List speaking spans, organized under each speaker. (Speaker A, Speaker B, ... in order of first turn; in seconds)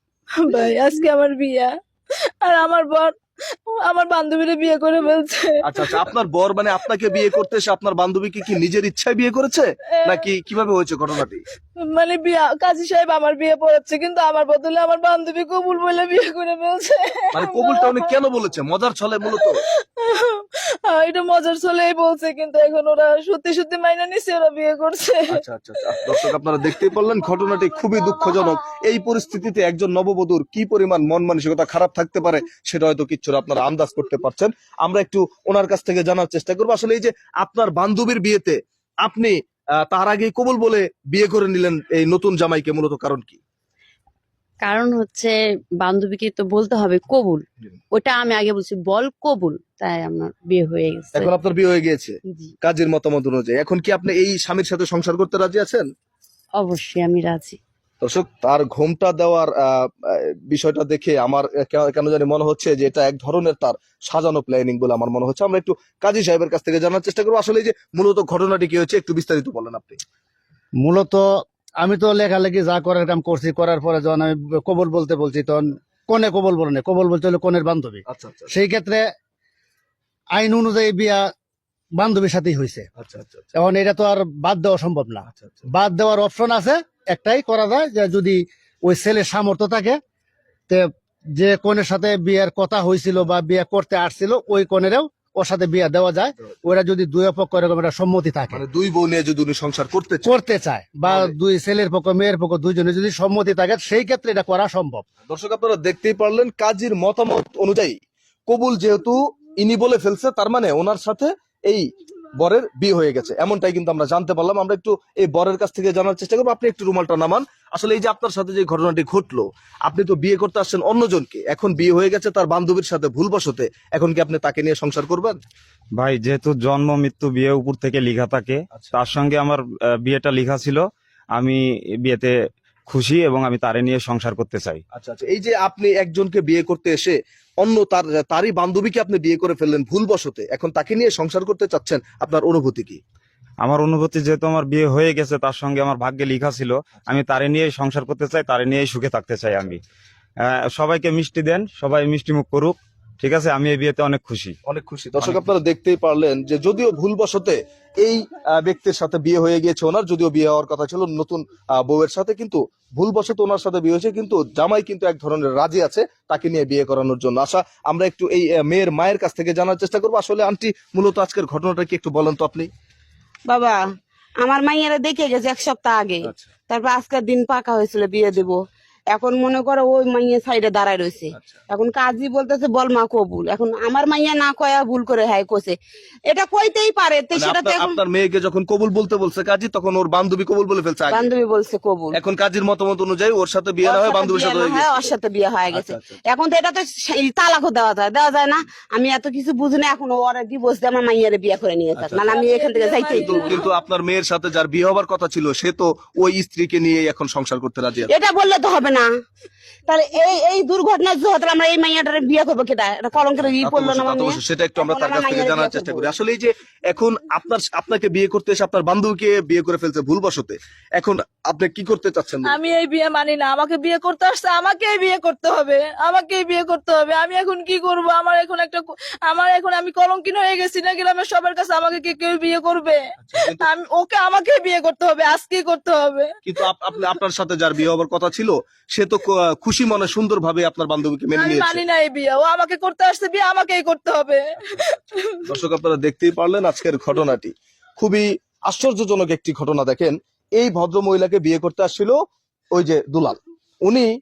Speaker A: 0.3-1.7, 2.4-3.1, 3.7-5.9, 11.8-18.1, 19.3-25.4, 27.7-28.5, 202.3-203.6, 222.5-236.3, 241.3-245.4
Speaker B: 5.6-11.4, 17.3-19.6, 25.3-43.4, 51.1-55.8, 58.0-70.0, 78.1-78.5, 83.0-83.5, 85.3-85.6, 98.5-100.3, 101.0-101.3, 105.3-111.8, 112.4-125.4, 134.9-143.0, 154.7-172.7, 176.2-176.5, 181.3-181.6, 187.3-191.3, 192.1-195.1, 195.7-196.2, 202.0-202.3, 203.1-208.1, 213.6-222.6, 233.2-233.7, 236.4-241.8, 245.4-252.2, 252.7-254.1
Speaker C: 44.6-51.3, 56.6-57.6
Speaker D: 70.8-71.2, 71.8-79.1, 80.3-81.3, 81.9-82.9, 83.5-90.0, 90.7-98.6, 100.2-105.0
Speaker E: 126.0-130.8, 131.3-132.3, 132.9-134.8, 143.6-149.8, 150.4-154.5
Speaker F: 173.5-173.8, 174.4-178.6, 179.1-185.8, 186.3-188.0, 191.1-192.2, 193.8-203.6, 208.1-209.1, 209.9-216.1